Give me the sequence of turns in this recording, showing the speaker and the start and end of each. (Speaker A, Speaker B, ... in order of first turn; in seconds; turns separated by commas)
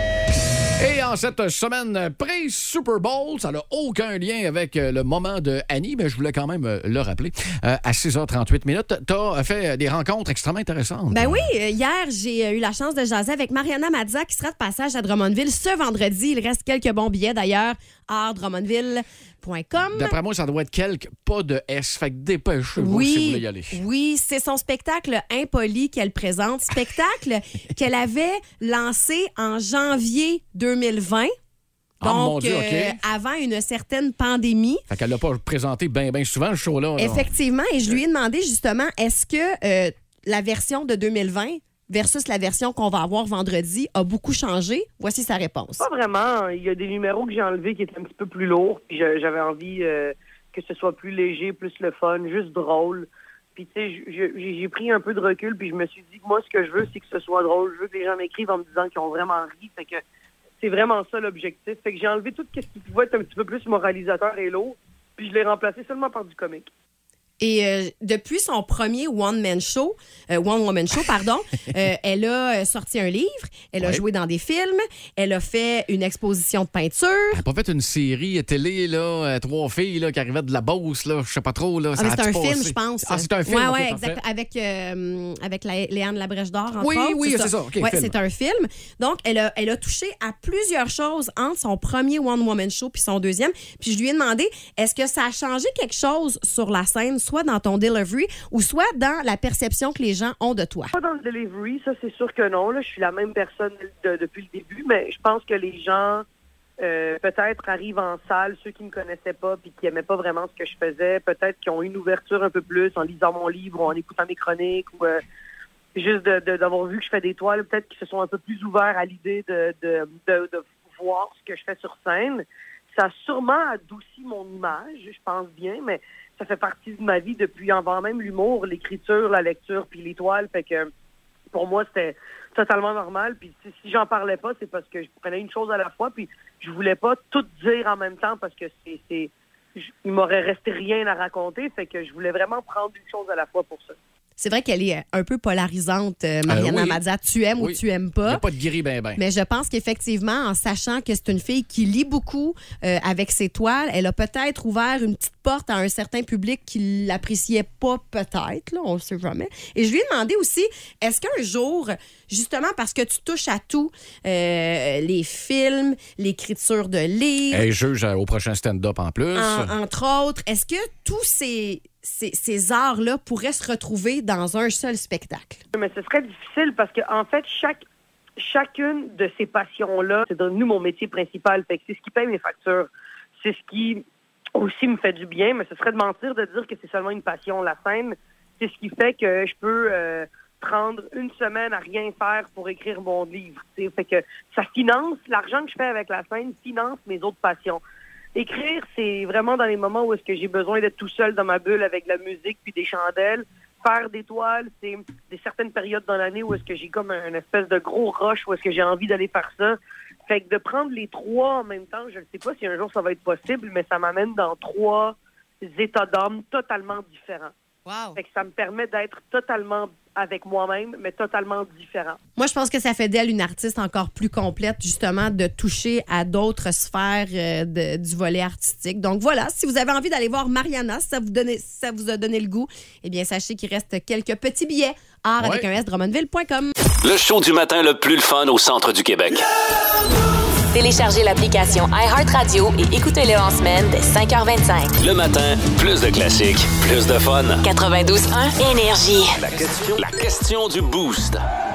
Speaker A: 0.8-11.5, Speaker B: 11.1-20.1, Speaker A: 19.9-23.8, Speaker B: 22.8-31.3, Speaker A: 32.0-33.0, Speaker B: 32.0-34.8, Speaker A: 34.9-37.3, Speaker B: 37.0-45.9, Speaker C: 45.8-60.0, Speaker C: 60.6-66.7, Speaker B: 67.4-77.4, Speaker A: 77.3-84.2, Speaker B: 82.0-100.9, Speaker A: 86.8-88.2, Speaker C: 100.9-106.2, Speaker C: 106.8-115.2, Speaker C: 116.0-130.9, Speaker C: 131.5-144.0, Speaker B: 144.4-148.4, Speaker A: 146.5-147.0, Speaker A: 147.6-149.2, Speaker B: 149.2-167.6, Speaker A: 167.5-169.7, Speaker B: 169.3-175.6, Speaker C: 175.7-177.8, Speaker C: 178.4-182.9, Speaker C: 183.4-184.0, Speaker C: 184.6-197.8, Speaker C: 198.3-217.5, Speaker B: 217.9-218.2, Speaker C: 218.2-222.2, Speaker B: 222.4-236.7, Speaker A: 235.4-235.7, Speaker D: 237.0-239.4, Speaker E: 240.7-244.9, Speaker D: 245.0-247.6, Speaker E: 247.6-249.4, Speaker D: 249.4-251.4